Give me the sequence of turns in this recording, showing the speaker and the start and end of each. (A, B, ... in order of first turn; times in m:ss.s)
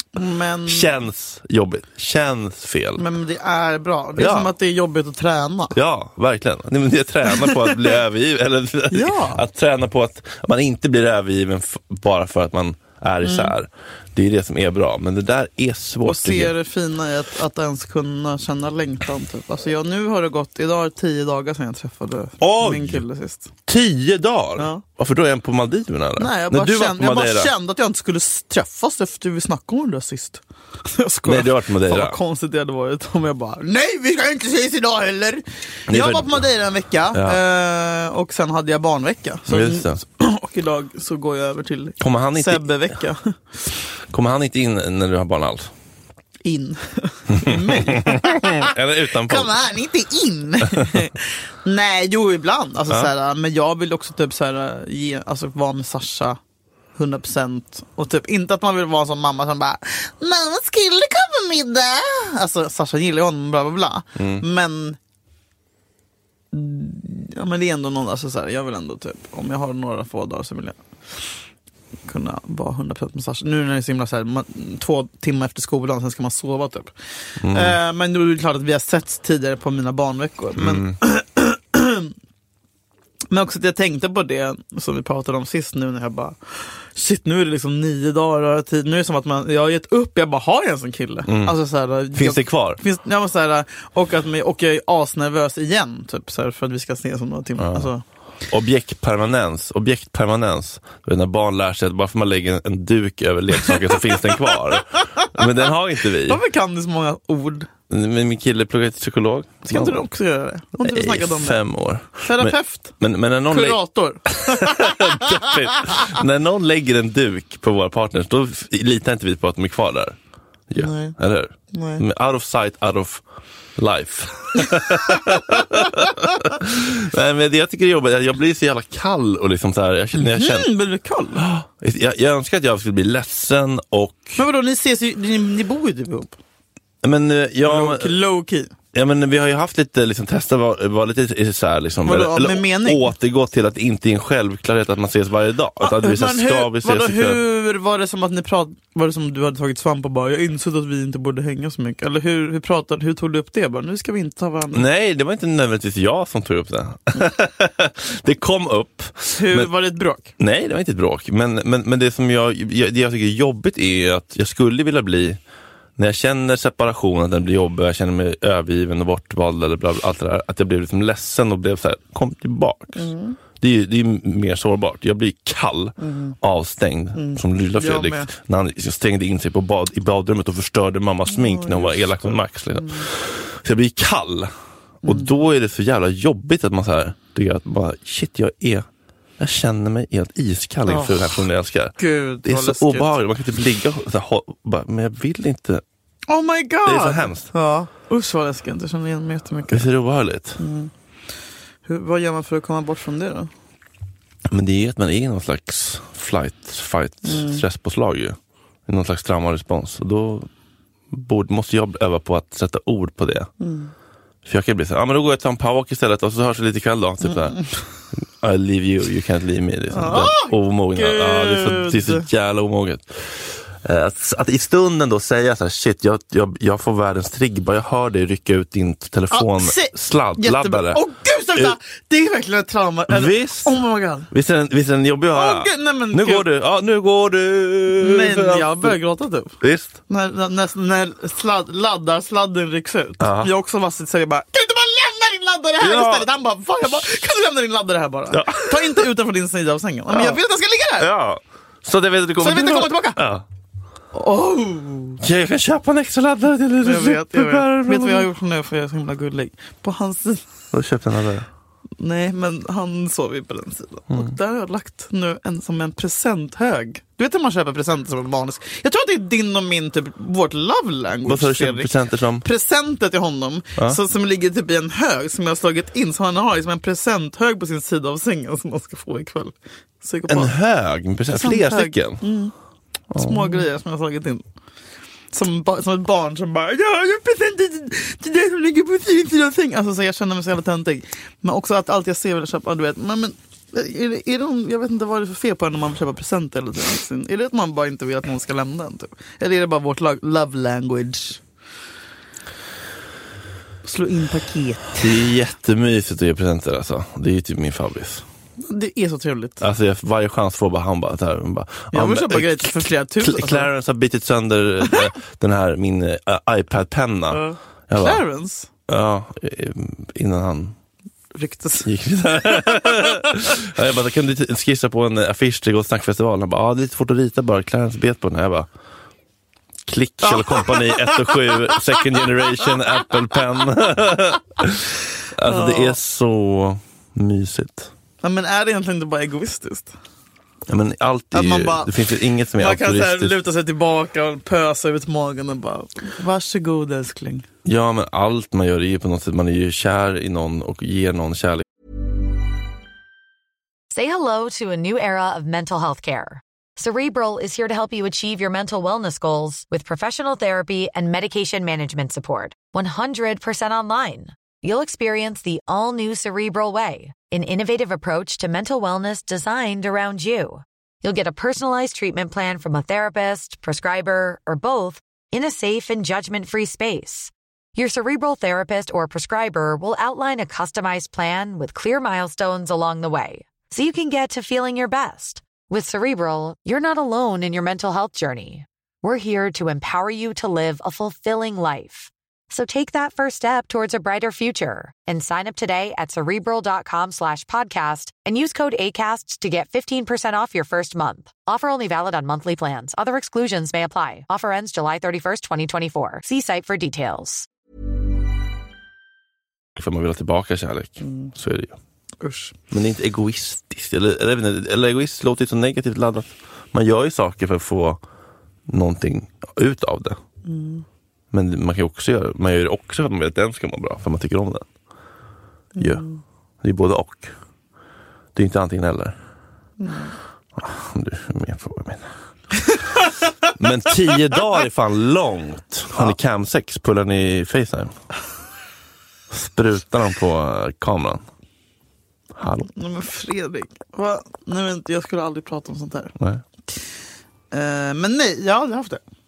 0:00.2-0:01.0 A
0:00.7-0:03.0 B
0:03.0-0:05.8 A
0:04.2-0:04.5 B
0:05.7-0:16.6 B
0:08.9-0:09.4 A
0:13.2-0:13.5 A
0:16.0-0:23.5 A
0:22.4-0:23.0 B
0:23.7-0:27.5 B
0:24.6-0:24.8 A
0:26.2-0:43.4 A
0:31.2-0:32.2 B
0:35.9-0:36.5 B
0:37.1-0:37.4 B
0:39.5-0:40.0 B
0:42.0-0:42.8 B
0:44.1-0:45.7 B
0:46.4-0:56.4 A
0:47.3-0:49.5 B
0:57.0-1:05.0 A
1:04.2-1:04.4 B
1:06.5-1:10.8 A
1:12.1-1:16.9 A
1:17.4-1:17.8 B
1:17.5-1:22.1 A
1:20.6-1:21.0 B
1:23.3-1:38.0 A
1:31.3-1:31.6 B
1:32.1-1:32.8 B
1:37.6-1:37.9 B
1:38.5-1:46.4 B
1:43.7-1:45.5 A
1:46.2-1:47.7 A
1:47.9-1:50.0 B
1:49.7-1:51.6 A
1:50.8-2:00.2 B
1:52.2-1:52.9 A
1:53.5-1:56.1 A
2:00.7-2:03.2 B
2:00.8-2:01.2 A
2:01.7-2:02.0 A
2:03.8-2:10.7 B
2:05.5-2:05.8 A
2:10.2-2:11.5 A
2:11.4-2:14.4 B
2:14.4-2:16.4 A
2:17.0-2:18.2 B
2:17.6-2:18.7 A
2:18.9-2:27.4 B
2:22.0-2:23.1 A
2:25.8-2:34.9 A
2:34.7-2:39.7 B
2:39.4-2:40.3 A
2:40.4-2:45.4 B
2:46.0-2:53.0 B
2:53.0-2:53.4 A
2:53.6-3:04.5 B
2:56.0-2:56.4 A
2:57.2-2:58.3 A
3:01.3-3:03.1 A
3:05.0-3:05.4 A
3:05.0-3:08.9 B
3:09.4-3:15.8 B
3:10.9-3:11.4 A
3:12.0-3:13.2 A
3:16.3-3:19.9 A
3:16.8-3:17.5 B
3:19.7-3:20.6 B
3:20.6-3:20.9 A
3:21.8-3:23.5 A
3:24.5-3:30.5 B
3:27.2-3:27.6 A
3:31.1-3:33.5 B
3:33.6-3:33.9 A
3:34.4-3:37.6 B
3:37.3-3:37.7 A
3:38.2-3:51.0 B
3:39.9-3:42.3 A
3:49.3-3:54.3 A
3:53.1-3:53.8 B
3:54.3-3:59.0 B
3:55.3-3:56.5 A
3:58.0-3:59.5 A
3:59.6-4:00.0 B
4:00.1-4:11.1 A
4:03.2-4:03.5 B
4:05.8-4:06.3 B
4:08.3-4:09.1 B
4:10.1-4:10.4 B
4:11.0-4:13.4 B
4:12.4-4:13.2 A
4:14.1-4:15.2 A
4:15.2-4:18.3 B
4:16.8-4:20.4 A
4:20.7-4:21.5 B
4:22.0-4:40.5 A
4:31.3-4:32.4 B
4:40.3-4:42.2 B
4:41.3-4:42.5 A
4:43.1-4:43.7 B
4:43.2-4:44.4 A
4:45.3-5:01.4 A
5:03.8-5:05.2 A
5:05.0-5:08.2 B
5:08.6-5:09.6 A
5:09.6-5:18.2 B
5:11.9-5:13.7 A
5:17.3-5:18.7 A
5:18.9-5:20.8 B
5:21.3-5:21.9 A
5:21.8-5:28.7 B
5:22.4-5:23.4 A
5:29.9-5:37.9 B
5:30.2-5:31.8 A
5:35.4-5:36.0 A
5:38.2-5:39.9 A
5:40.7-5:43.4 B
5:41.3-5:41.9 A
5:42.6-5:47.5 A
5:47.6-5:51.7 B
5:53.9-6:47.5 C
6:49.8-6:51.8 B
6:51.0-6:51.3 A
6:52.2-6:52.6 A
6:52.7-6:58.0 B
6:58.7-7:00.2 B
7:00.4-7:00.8 A
7:01.3-7:04.7 B
7:05.8-7:06.2 A
7:05.8-7:06.0 B
7:06.6-7:07.3 B
7:08.4-7:09.2 B
7:09.8-7:10.2 A
7:10.6-7:12.1 B
7:12.7-7:13.1 A
7:13.6-7:17.9 B
7:19.3-7:21.2 B
7:22.4-7:22.7 B
7:22.8-7:26.2 A
7:27.5-7:29.0 A